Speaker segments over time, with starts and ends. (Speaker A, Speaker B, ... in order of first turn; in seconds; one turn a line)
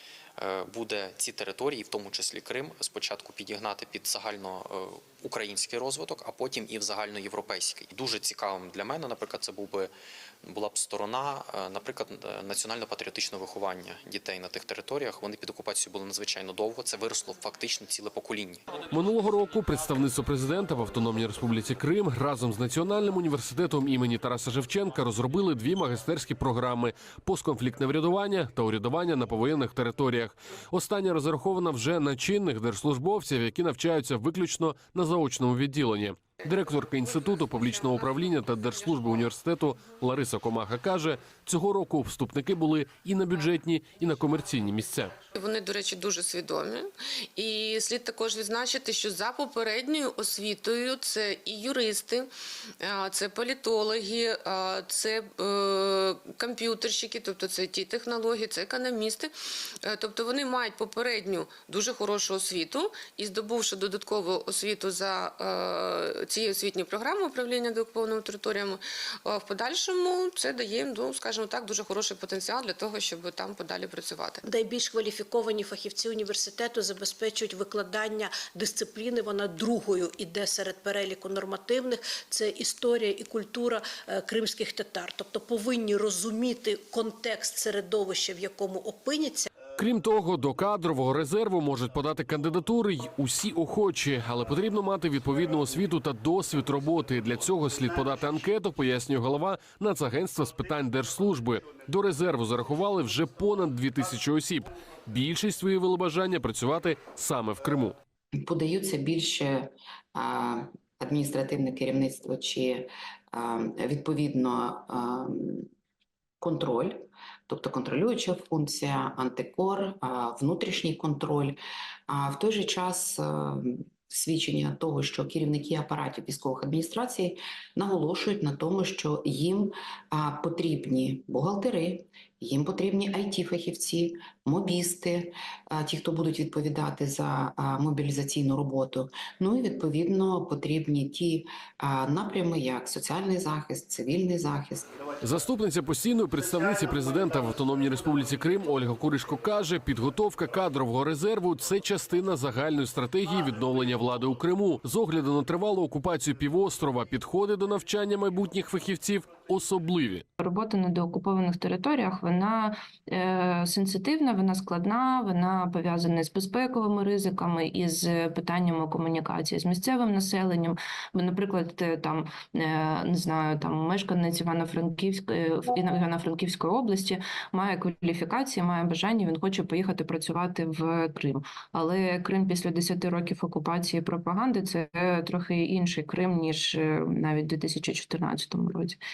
Speaker A: 0.4-9.9
Speaker A: 10.4-18.6
Speaker B: 18.9-45.1
Speaker C: 45.3-74.4
Speaker D: 74.5-89.5
Speaker B: 89.8-108.0
Speaker E: 108.4-115.7
Speaker E: 116.4-121.6
Speaker E: 122.1-144.9
Speaker B: 145.2-160.2
Speaker F: 160.4-189.0